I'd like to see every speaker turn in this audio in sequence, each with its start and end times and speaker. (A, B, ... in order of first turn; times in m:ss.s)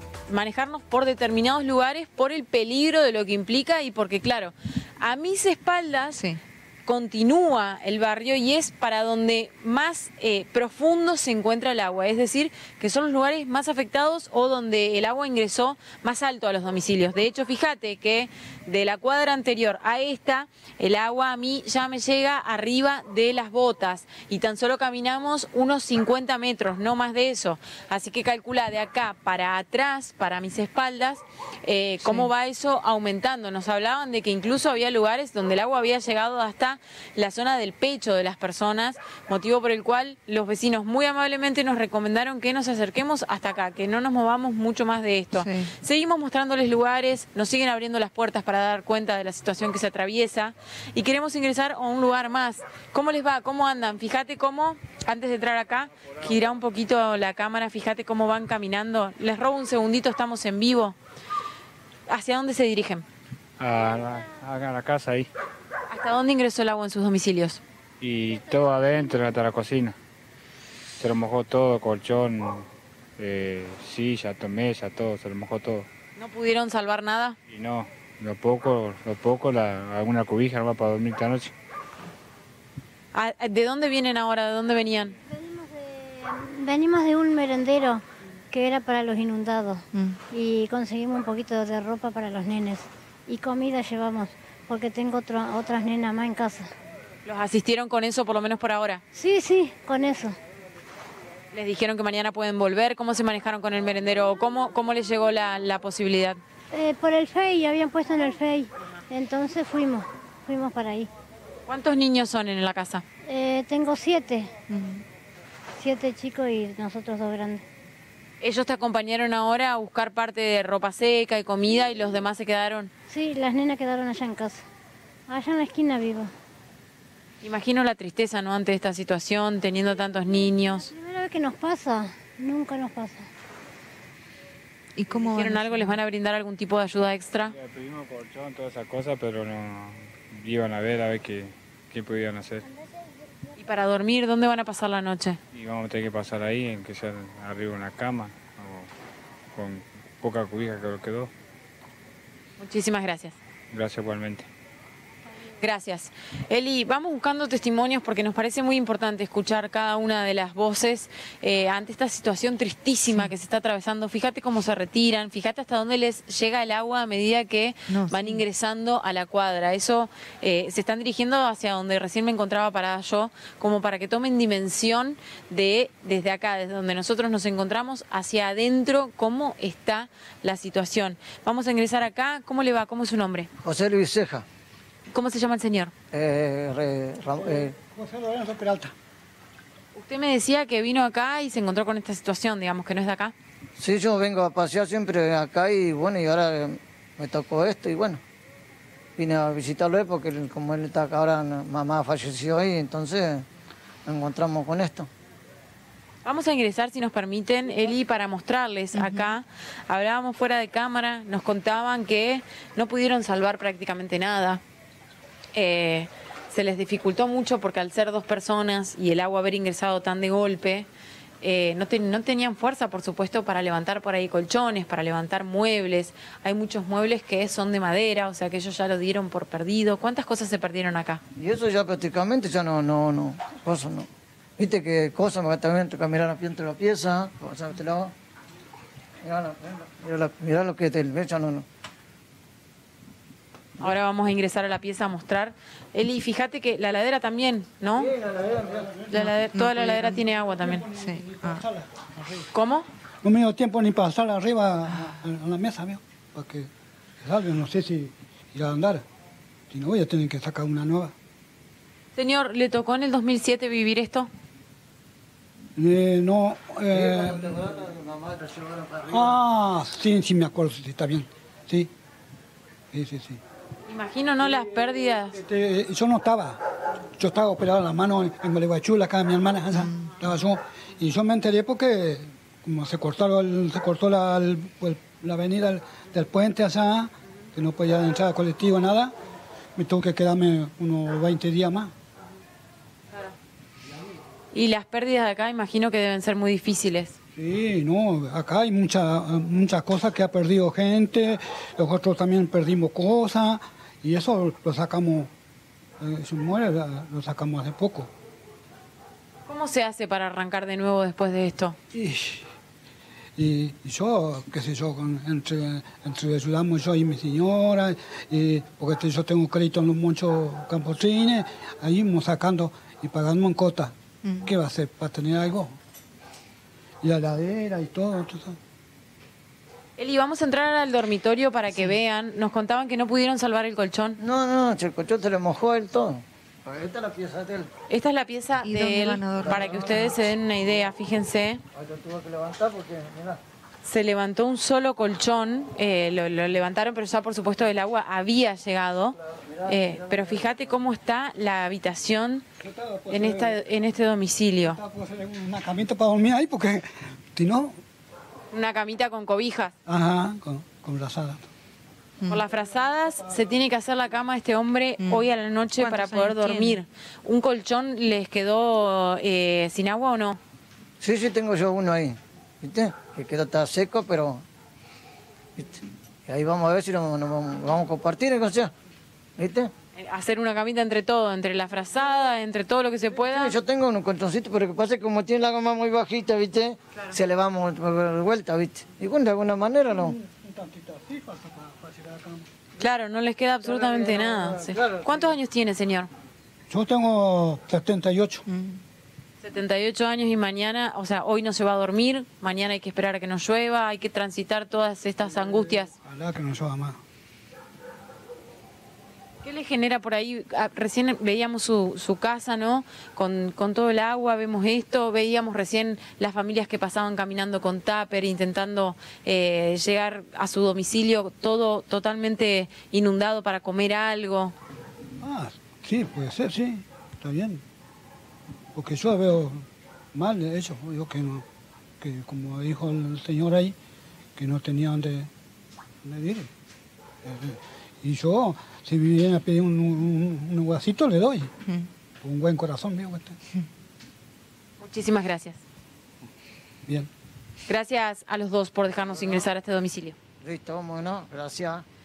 0:00.3-0:06.2 A
0:06.1-0:06.4 B
0:06.8-1:01.0 A
0:32.0-0:32.3 B
0:45.3-0:45.7 B
1:02.1-1:03.0 A
1:03.6-1:05.3 C
1:05.9-1:07.6 A
1:08.0-1:09.9 C
1:11.0-1:12.7 C
1:13.2-1:15.9 C
1:16.2-1:17.4 A
1:17.5-1:21.5 C
1:23.1-1:25.2 A
1:25.3-1:28.0 D
1:28.5-1:29.8 D
1:29.9-1:30.2 B
1:30.3-1:36.6 D
1:37.2-1:39.0 A
1:39.2-1:40.3 D
1:41.5-1:46.4 A
1:46.7-1:51.1 D
1:51.7-1:53.0 A
1:53.3-1:54.5 D
1:54.7-1:55.0 B
1:55.8-1:57.6 D
1:58.4-2:02.9 A
2:03.1-2:04.6 D
2:05.3-2:06.3 D
2:07.4-2:10.9 A
2:10.8-2:13.2 D
2:15.0-2:16.0 B
2:15.3-2:17.6 A
2:17.5-2:22.7 C
2:23.6-2:25.4 A
2:25.5-2:28.9 C
2:29.5-2:31.3 C
2:32.6-2:33.4 A
2:33.7-2:34.5 C
2:35.6-3:03.5 A
2:47.9-2:48.4 B
3:03.6-3:04.4 E
3:05.1-3:05.9 A
3:06.1-3:07.7 E
3:07.4-3:08.9 F
3:09.9-3:13.3 A
3:13.8-3:18.2 E
3:19.2-3:23.4 E
3:24.0-3:25.1 E
3:26.2-3:34.6 A
3:28.9-3:29.2 B
3:35.5-3:40.9 A
3:41.4-3:51.2 A
3:51.4-3:58.1 E
3:59.2-4:01.6 E
4:03.8-4:08.1 A
4:08.0-4:08.9 E
4:08.7-4:09.0 F
4:09.1-4:10.9 A
4:09.2-4:10.2 B
4:10.6-4:12.3 F
4:10.9-4:11.6 B
4:12.5-4:12.9 A
4:13.2-4:16.7 F
4:17.2-4:19.0 F
4:19.7-4:21.1 F
4:22.1-4:24.3 A
4:25.8-4:27.7 F
4:26.9-4:29.4 E
4:29.1-4:31.9 F
4:32.9-4:33.4 F
4:33.9-4:35.4 A
4:35.4-4:36.6 F
4:37.2-4:49.1 F
4:39.8-4:40.1 B
4:49.8-4:51.9 F
4:54.5-4:57.2 A
4:57.3-5:05.3 F
5:06.0-5:08.1 F
5:09.5-5:11.8 A
5:11.9-5:12.4 F
5:13.4-5:25.8 F
5:24.2-5:24.5 B
5:27.0-5:28.6 F
5:30.0-5:34.2 A
5:31.7-5:32.0 B
5:34.2-5:37.7 E
5:37.9-5:41.6 A
5:38.6-5:40.2 B
5:39.4-5:40.0 E
5:41.7-5:43.4 E
5:43.8-5:52.4 A
5:49.5-5:50.3 E
5:52.6-5:53.6 F
5:53.1-5:54.8 A
5:54.6-5:57.8 F
5:58.5-5:59.7 A
5:59.8-6:01.5 F
6:02.3-6:10.4 A
6:05.0-6:06.8 B
6:11.0-6:14.4 E
6:15.6-6:18.7 E
6:19.4-6:19.7 E
6:20.0-6:23.6 A
6:23.2-6:30.2 E
6:29.9-6:32.5 F
6:32.8-6:36.1 A
6:33.7-6:35.2 E
6:36.7-6:38.5 F
6:38.5-6:38.8 B
6:39.4-6:45.9 A
6:46.0-6:47.0 F
6:49.4-7:04.5 A
7:05.2-7:07.6 F
7:08.7-7:11.4 F
7:12.0-7:13.7 F
7:14.4-7:15.3 F
7:16.0-7:16.5 F
7:17.2-7:21.5 F
7:22.2-7:23.4 F
7:24.8-7:25.6 A
7:27.7-7:30.2 A
7:30.4-7:31.8 E